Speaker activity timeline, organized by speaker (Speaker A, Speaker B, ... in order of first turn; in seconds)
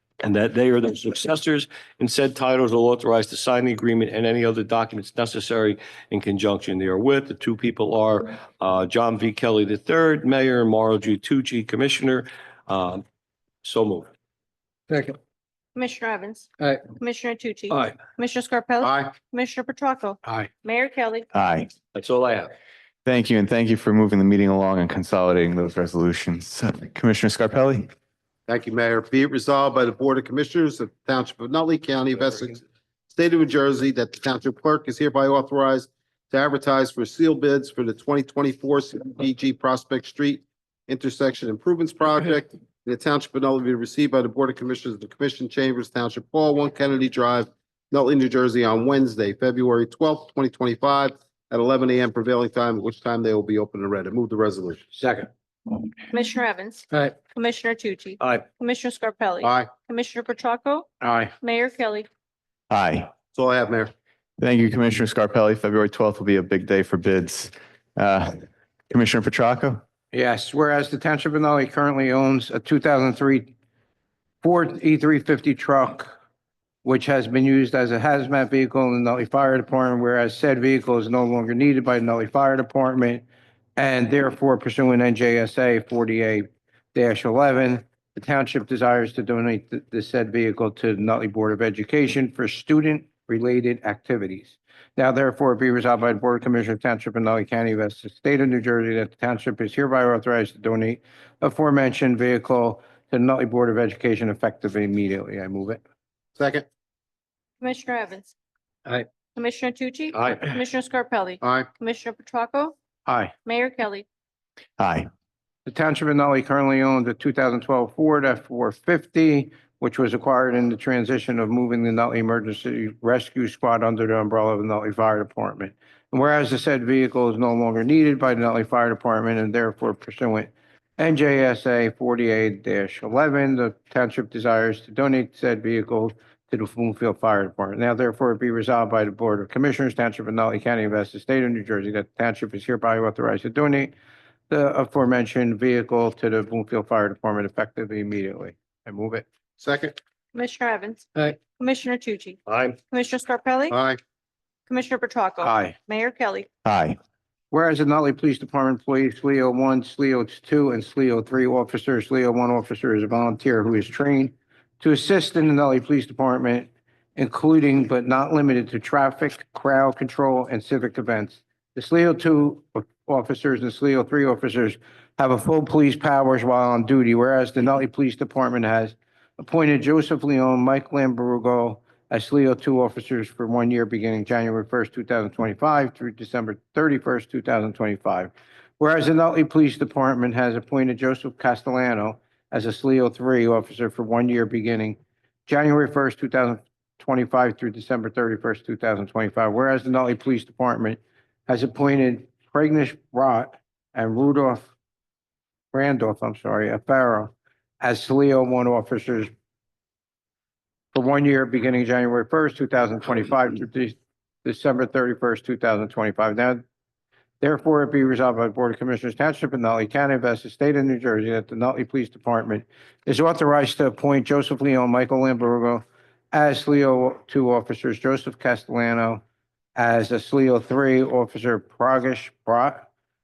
Speaker A: 0.2-13.0, 13.6-14.1, 21.9-22.5, 110.1-110.4, 152.5-152.8
Speaker B: 15.7-21.3, 56.1-60.9, 61.4-62.1, 107.6-108.3, 109.3-112.8, 113.4-114.0, 150.3-152.4, 152.9-153.8, 154.7-156.5
Speaker C: 18.8-19.1, 28.5-54.8, 59.4-59.7, 63.3-63.9, 106.3-106.7, 111.4-111.7, 149.6-150.0, 153.7-154.0
Speaker D: 21.3-21.7, 23.0-27.9, 62.7-63.1, 64.4-69.8, 114.8-115.1, 156.6-157.0
Speaker E: 61.0-61.3, 70.1-73.5, 74.4-76.1, 76.8-83.2, 83.8-105.8, 113.1-113.3, 115.7-143.9, 144.5-149.3, 155.4-155.7, 157.5-204.7, 205.7-209.3, 210.9-216.6, 217.4-229.2, 229.8-232.9